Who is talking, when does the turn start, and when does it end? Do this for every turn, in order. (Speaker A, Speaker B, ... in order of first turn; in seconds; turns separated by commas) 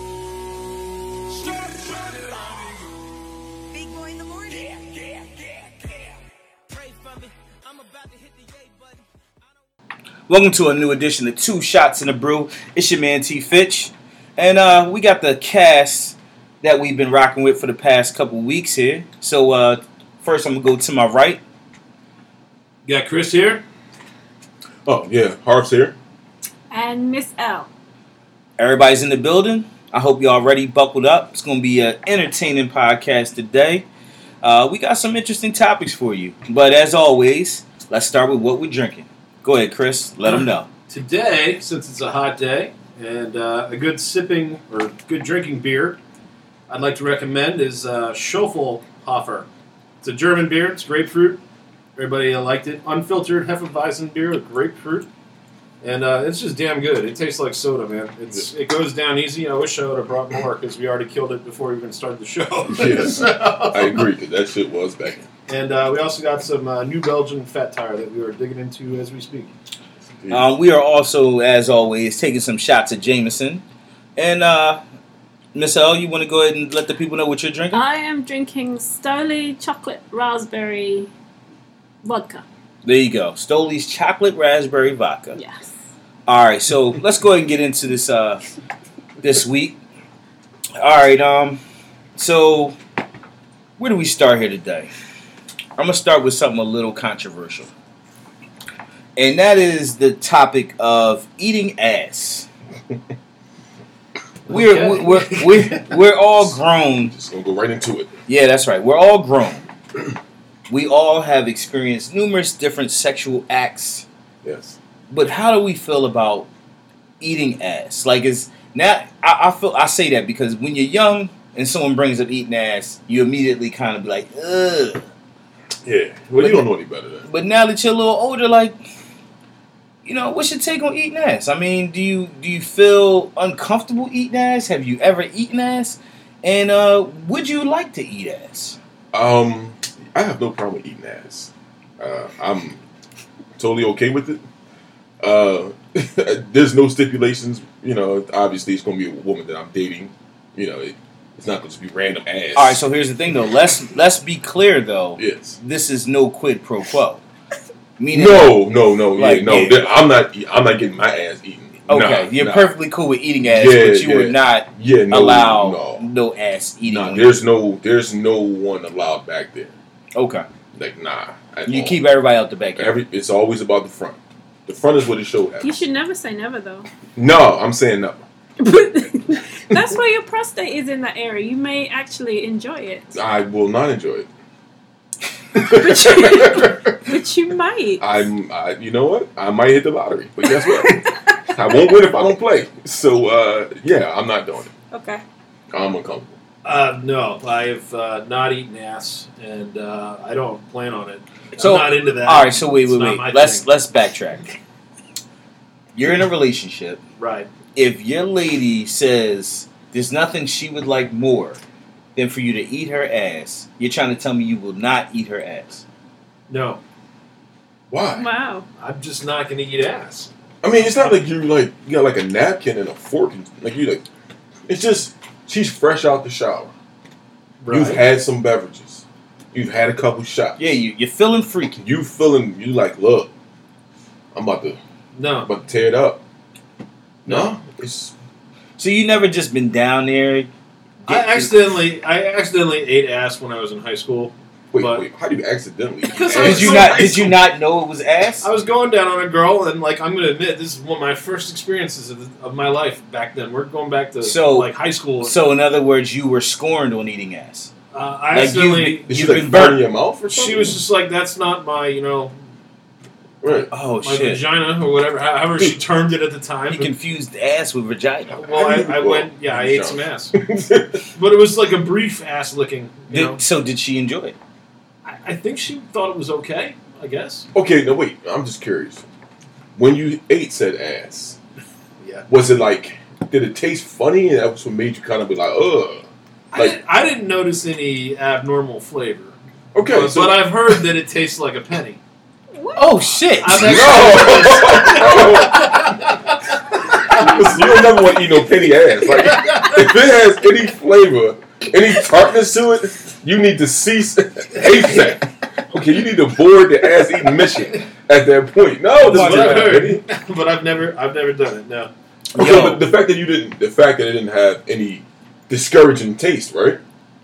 Speaker A: 1.4-2.8, Speaker A: 3.7-6.1, Speaker A: 6.7-9.0, Speaker B: 10.3-21.4, Speaker C: 22.8-23.6, Speaker D: 24.9-25.9, Speaker E: 26.7-27.7, Speaker B: 28.6-33.8, Speaker B: 34.4-40.7, Speaker C: 40.2-46.0, Speaker C: 46.7-49.5, Speaker C: 50.0-51.4, Speaker C: 52.0-55.1, Speaker C: 55.8-64.0, Speaker D: 62.7-65.2, Speaker C: 65.5-69.5, Speaker D: 70.2-70.4, Speaker B: 70.3-73.6, Speaker B: 74.2-74.8, Speaker B: 75.5-77.8, Speaker E: 77.7-81.1, Speaker E: 82.0-82.4, Speaker B: 82.8-85.4, Speaker E: 85.3-85.7, Speaker B: 86.2-88.4, Speaker B: 89.2-89.8, Speaker B: 90.8-91.6, Speaker B: 92.2-92.7, Speaker B: 93.8-94.9, Speaker B: 95.8-97.7, Speaker B: 99.2-102.5, Speaker C: 104.5-105.9, Speaker B: 104.5-107.1, Speaker D: 107.1-108.1, Speaker B: 108.3-109.6, Speaker B: 110.7-114.0, Speaker D: 114.4-114.8, Speaker B: 115.1-116.5, Speaker B: 117.2-125.0, Speaker D: 125.8-127.3, Speaker B: 126.4-126.7, Speaker B: 127.2-128.8, Speaker B: 130.0-138.8, Speaker D: 139.1-142.8, Speaker D: 143.6-144.4, Speaker D: 145.2-152.8, Speaker B: 152.6-157.2, Speaker D: 155.2-155.6, Speaker B: 158.0-158.6, Speaker D: 158.1-162.7, Speaker B: 159.1-159.9, Speaker B: 161.9-167.4, Speaker D: 163.4-166.1, Speaker D: 166.8-169.7, Speaker B: 170.1-170.5, Speaker D: 170.7-172.0, Speaker B: 171.7-172.9, Speaker D: 172.8-175.8, Speaker E: 175.6-176.9, Speaker D: 177.2-178.2, Speaker E: 178.6-183.2, Speaker D: 183.1-184.3, Speaker D: 185.6-186.9, Speaker E: 185.6-188.0, Speaker D: 188.0-194.7, Speaker E: 194.9-195.2, Speaker D: 195.7-196.3, Speaker C: 196.6-203.7, Speaker B: 201.6-204.5, Speaker B: 205.9-207.0, Speaker C: 207.2-207.5, Speaker B: 207.7-211.6, Speaker B: 212.2-215.8, Speaker C: 216.5-216.8, Speaker D: 217.9-218.2, Speaker E: 218.1-218.7, Speaker C: 218.8-221.2, Speaker D: 220.6-224.0, Speaker D: 224.7-226.7, Speaker C: 227.6-228.0, Speaker D: 227.7-230.7, Speaker B: 230.6-231.8, Speaker D: 231.8-233.3, Speaker D: 234.3-234.8, Speaker C: 235.1-235.5, Speaker D: 235.4-236.2, Speaker D: 237.2-238.1, Speaker B: 238.8-240.5, Speaker B: 241.1-241.5, Speaker C: 241.1-245.0, Speaker D: 244.7-247.3, Speaker C: 246.1-247.3, Speaker B: 246.3-248.4, Speaker C: 248.4-255.4, Speaker B: 254.2-254.7, Speaker B: 255.2-257.7, Speaker C: 257.9-259.6, Speaker B: 258.3-259.8, Speaker D: 259.1-260.8, Speaker C: 260.3-262.3, Speaker D: 263.4-263.7, Speaker B: 263.7-264.4, Speaker C: 264.0-266.9, Speaker B: 266.7-268.4, Speaker C: 268.3-270.3, Speaker D: 268.5-271.0, Speaker C: 271.1-273.4, Speaker B: 273.1-274.4, Speaker C: 275.0-277.5, Speaker D: 277.5-279.0, Speaker D: 279.8-281.4, Speaker C: 282.0-282.2, Speaker D: 282.3-286.8, Speaker C: 286.5-292.0, Speaker D: 289.7-290.8, Speaker E: 292.5-293.0, Speaker B: 292.8-294.5, Speaker C: 293.4-297.8, Speaker D: 293.5-296.0, Speaker D: 297.1-310.0, Speaker C: 299.0-299.9, Speaker C: 304.6-305.0, Speaker C: 309.0-311.9, Speaker B: 309.0-309.9, Speaker B: 312.3-312.8, Speaker D: 312.4-316.8